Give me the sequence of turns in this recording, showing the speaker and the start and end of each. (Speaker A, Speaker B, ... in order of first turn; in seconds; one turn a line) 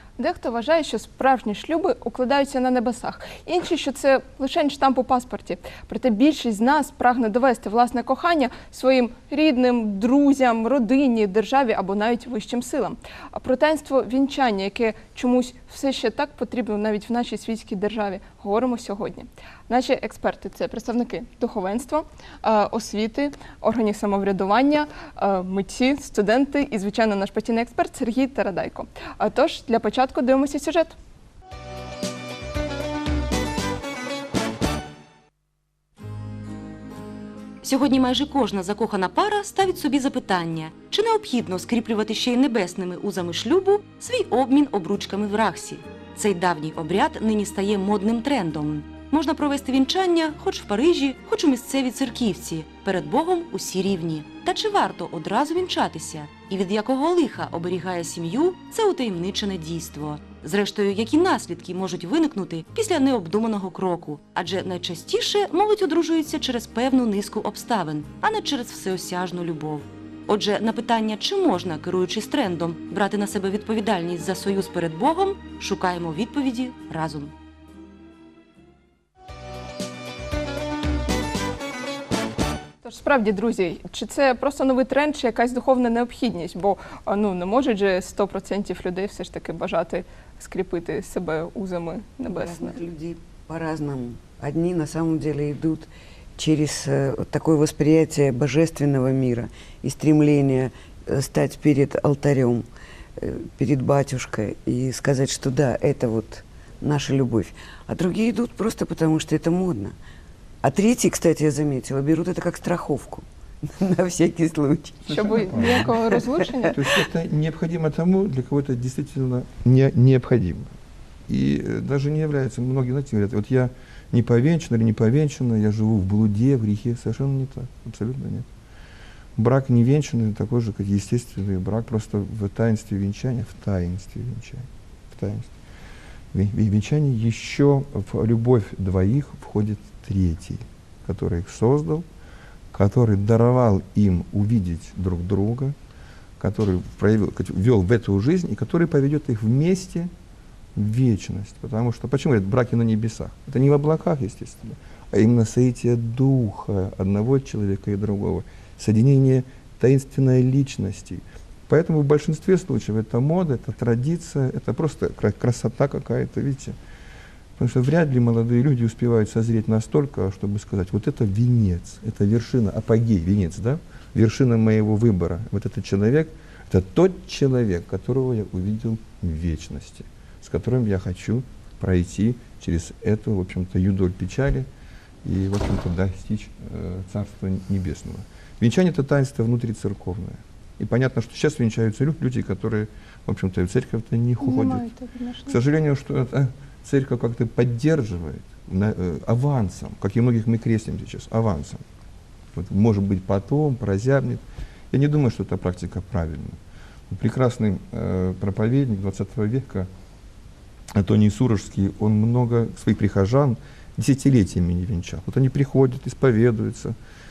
Speaker A: 0.2-30.9
Speaker B: 37.6-77.3
Speaker A: 82.8-92.8
Speaker C: 92.3-102.7
Speaker C: 103.2-109.9
Speaker C: 110.6-116.7
Speaker D: 115.0-116.0
Speaker A: 115.1-116.8
Speaker D: 116.7-120.7
Speaker D: 121.3-128.5
Speaker D: 129.3-135.5
Speaker D: 136.3-142.1
Speaker D: 142.7-145.8
Speaker D: 146.4-150.1
Speaker D: 150.7-166.8
Speaker D: 167.6-184.7
Speaker D: 185.2-194.9
Speaker A: 194.4-195.6
Speaker D: 195.5-201.8
Speaker D: 202.5-209.9
Speaker D: 210.9-216.9